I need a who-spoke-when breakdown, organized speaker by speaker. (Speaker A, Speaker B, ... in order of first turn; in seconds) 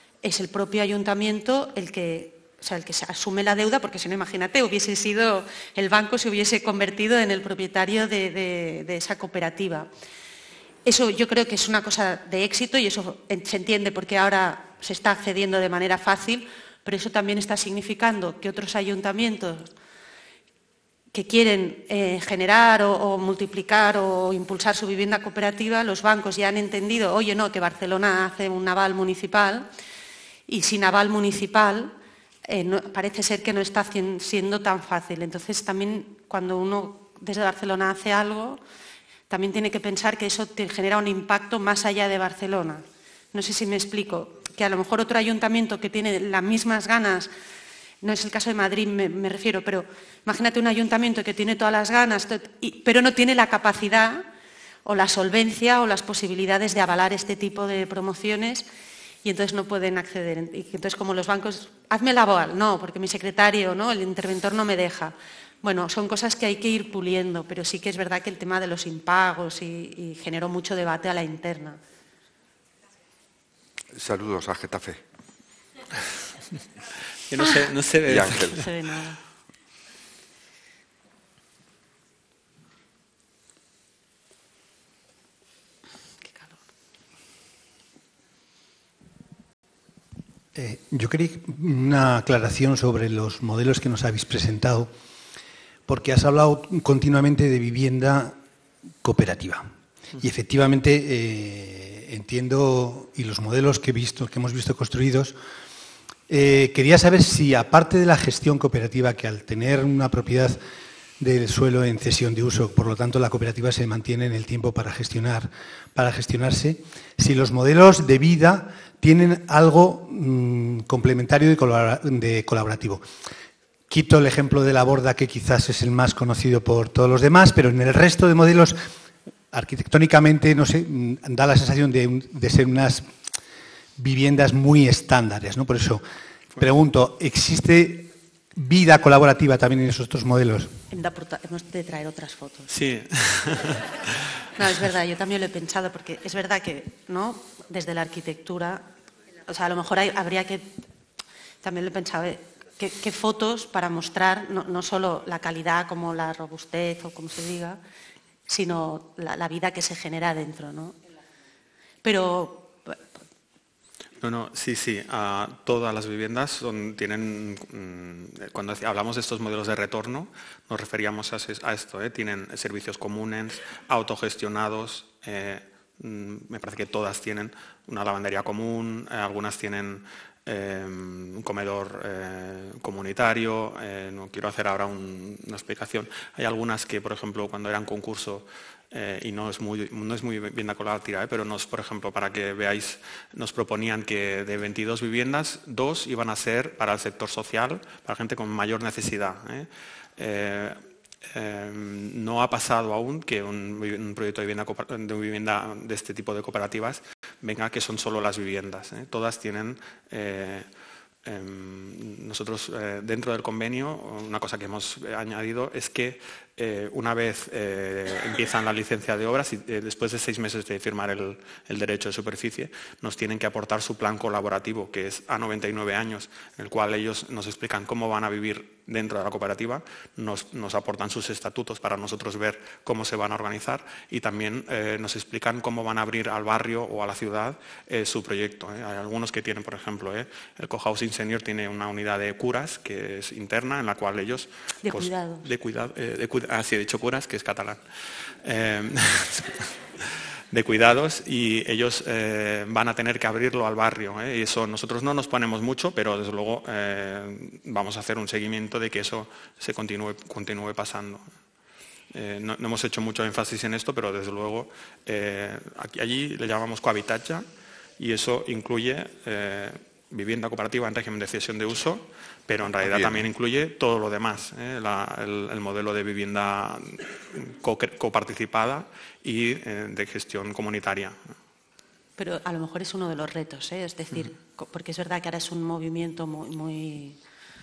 Speaker A: 0.2-9.9, 10.8-19.7, 21.1-29.7, 30.5-31.9, 32.5-38.6, 39.3-47.3, 48.0-54.2, 54.8-58.6, 59.2-71.8, 78.5-79.2, 86.2-86.6, 140.9-142.7, 144.6-148.9, 149.5-150.7, 151.6-157.8, 158.5-160.9, 162.0-163.0, 244.8-245.4, 282.2-287.2
Speaker B: 73.9-75.0, 78.0-78.6, 272.8-273.2
Speaker C: 77.3-78.6, 142.7-143.9, 164.2-210.7, 211.2-247.8, 248.4-261.2, 262.1-267.4, 268.0-281.2
Speaker D: 90.5-94.9, 95.9-98.3, 99.0-105.3, 106.3-110.6, 111.2-123.0, 123.9-128.8, 129.5-133.1, 134.0-136.0, 136.5-140.8